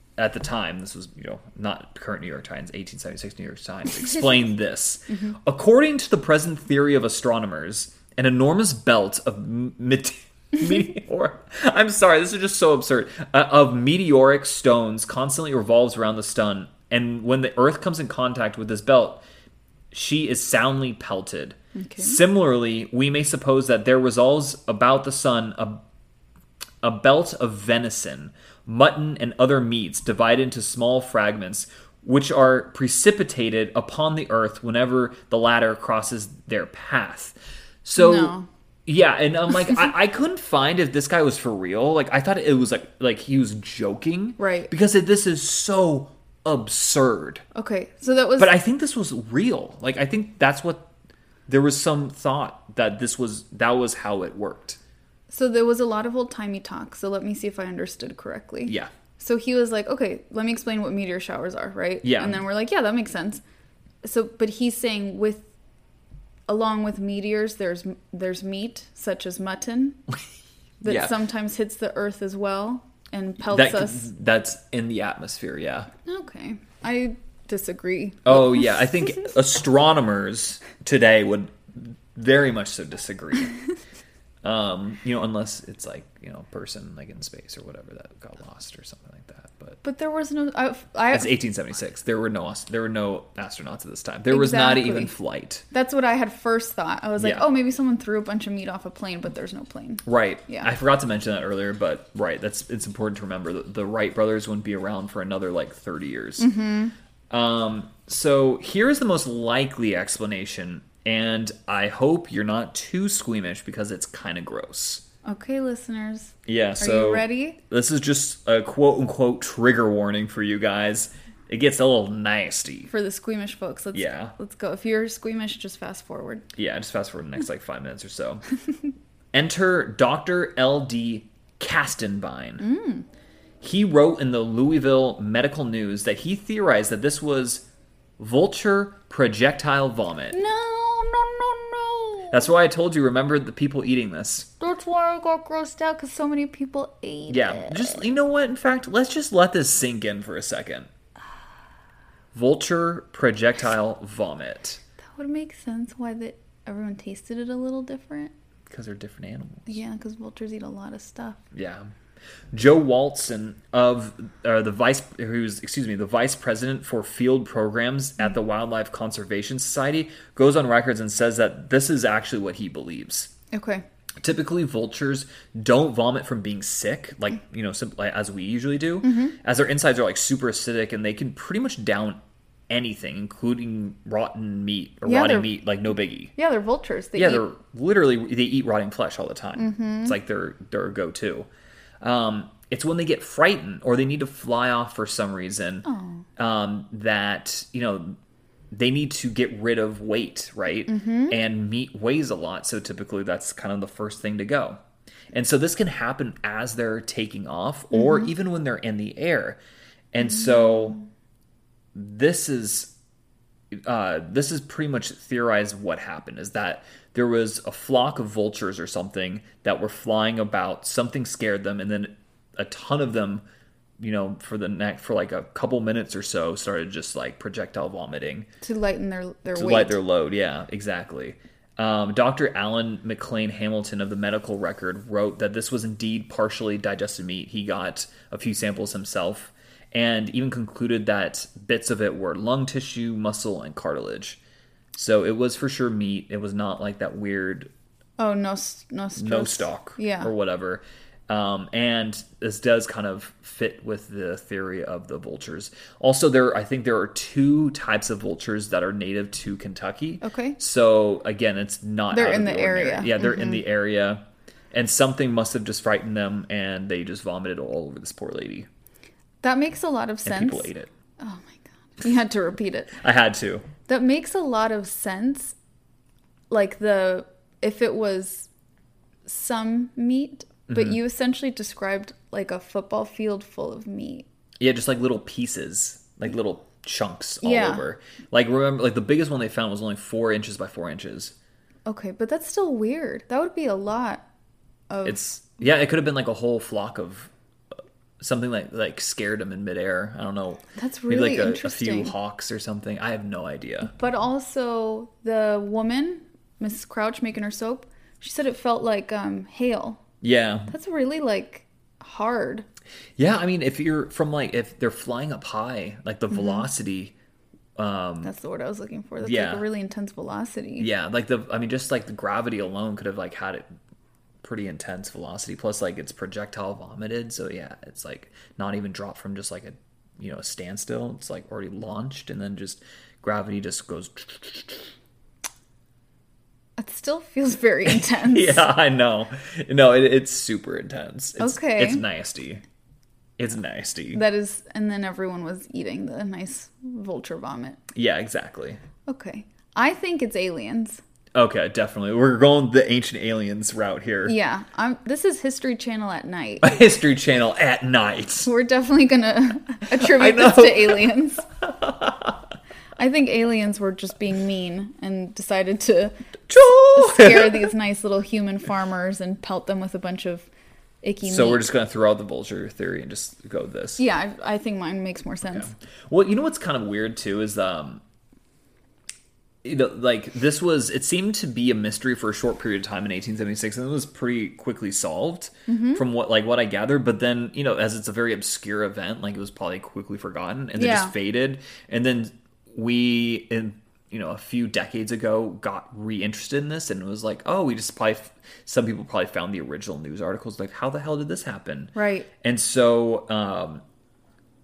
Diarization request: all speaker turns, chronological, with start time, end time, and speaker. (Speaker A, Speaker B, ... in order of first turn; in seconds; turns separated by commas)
Speaker A: 0.2-19.2, Speaker B: 5.1-5.4, Speaker A: 19.9-25.8, Speaker B: 21.8-22.2, Speaker A: 26.8-38.4, Speaker B: 38.0-38.5, Speaker A: 38.9-47.4, Speaker B: 44.4-44.7, Speaker B: 47.5-48.5, Speaker A: 48.4-50.9, Speaker A: 51.5-54.8, Speaker B: 55.3-63.4, Speaker A: 58.6-58.9, Speaker A: 62.0-62.4, Speaker B: 64.0-65.5, Speaker B: 66.5-70.0, Speaker B: 70.8-74.1, Speaker A: 70.8-71.1, Speaker A: 73.5-75.9, Speaker B: 76.0-78.8, Speaker A: 78.2-83.5, Speaker A: 84.4-89.8, Speaker B: 89.8-91.3, Speaker A: 91.1-95.6, Speaker B: 94.3-95.1, Speaker B: 95.7-100.7, Speaker A: 97.2-97.5, Speaker A: 100.0-106.5, Speaker B: 106.4-106.9, Speaker A: 107.3-115.0, Speaker B: 115.2-117.6, Speaker A: 116.5-122.9, Speaker B: 122.9-126.5, Speaker A: 123.9-124.3, Speaker A: 126.5-128.4, Speaker A: 129.3-132.6, Speaker B: 132.6-133.1, Speaker A: 133.6-137.7, Speaker A: 138.2-140.4, Speaker B: 140.3-142.5, Speaker A: 142.3-144.5, Speaker B: 144.6-148.0, Speaker A: 147.3-150.9, Speaker A: 152.3-154.8, Speaker B: 155.1-158.3, Speaker A: 158.7-159.8, Speaker B: 159.7-161.4, Speaker A: 161.5-161.9, Speaker A: 162.5-173.3, Speaker B: 173.5-173.8, Speaker A: 174.2-186.3, Speaker B: 179.0-179.4, Speaker B: 185.0-185.5, Speaker B: 186.4-187.5, Speaker A: 187.1-191.5, Speaker B: 189.6-190.2, Speaker A: 192.0-195.8, Speaker B: 195.9-196.2, Speaker A: 196.4-198.2, Speaker A: 198.7-204.8, Speaker B: 200.9-201.4, Speaker A: 205.3-209.6, Speaker B: 207.9-208.3, Speaker A: 210.1-211.0, Speaker A: 211.9-212.9, Speaker A: 213.7-223.4, Speaker A: 224.0-228.5, Speaker B: 228.6-230.0, Speaker A: 229.5-244.4, Speaker A: 244.9-247.7, Speaker B: 248.2-250.3, Speaker A: 249.2-264.2, Speaker B: 260.2-260.6, Speaker B: 262.1-263.6, Speaker A: 264.7-268.7, Speaker B: 269.4-273.0, Speaker A: 270.2-270.9, Speaker A: 273.0-273.7, Speaker B: 273.9-275.6, Speaker B: 276.5-278.5, Speaker B: 279.2-284.3, Speaker A: 280.7-281.0, Speaker A: 284.6-291.4, Speaker B: 287.4-287.8, Speaker B: 291.9-294.2, Speaker B: 294.9-295.2, Speaker A: 295.0-297.3, Speaker A: 298.2-303.9, Speaker B: 300.8-302.1, Speaker B: 303.9-310.0, Speaker A: 310.2-310.7, Speaker B: 310.7-312.6, Speaker A: 313.2-317.1, Speaker B: 316.3-316.7, Speaker A: 317.8-318.3, Speaker B: 318.2-320.9, Speaker A: 319.2-319.6, Speaker A: 320.8-323.6, Speaker A: 324.4-334.9, Speaker B: 336.8-338.6, Speaker A: 337.9-342.6, Speaker B: 341.4-342.0, Speaker A: 343.4-344.2, Speaker B: 344.1-347.8, Speaker A: 347.9-348.8, Speaker B: 349.1-351.0, Speaker A: 351.3-354.4, Speaker B: 354.2-356.7, Speaker A: 356.6-358.5, Speaker B: 358.4-361.5, Speaker A: 359.9-362.4, Speaker B: 363.0-366.1, Speaker A: 366.5-367.7, Speaker B: 366.9-370.5, Speaker B: 371.0-371.6, Speaker A: 371.2-374.0, Speaker B: 374.0-375.7, Speaker A: 375.5-378.0, Speaker A: 379.6-403.8, Speaker B: 385.7-386.0, Speaker B: 390.8-391.1, Speaker B: 401.9-402.3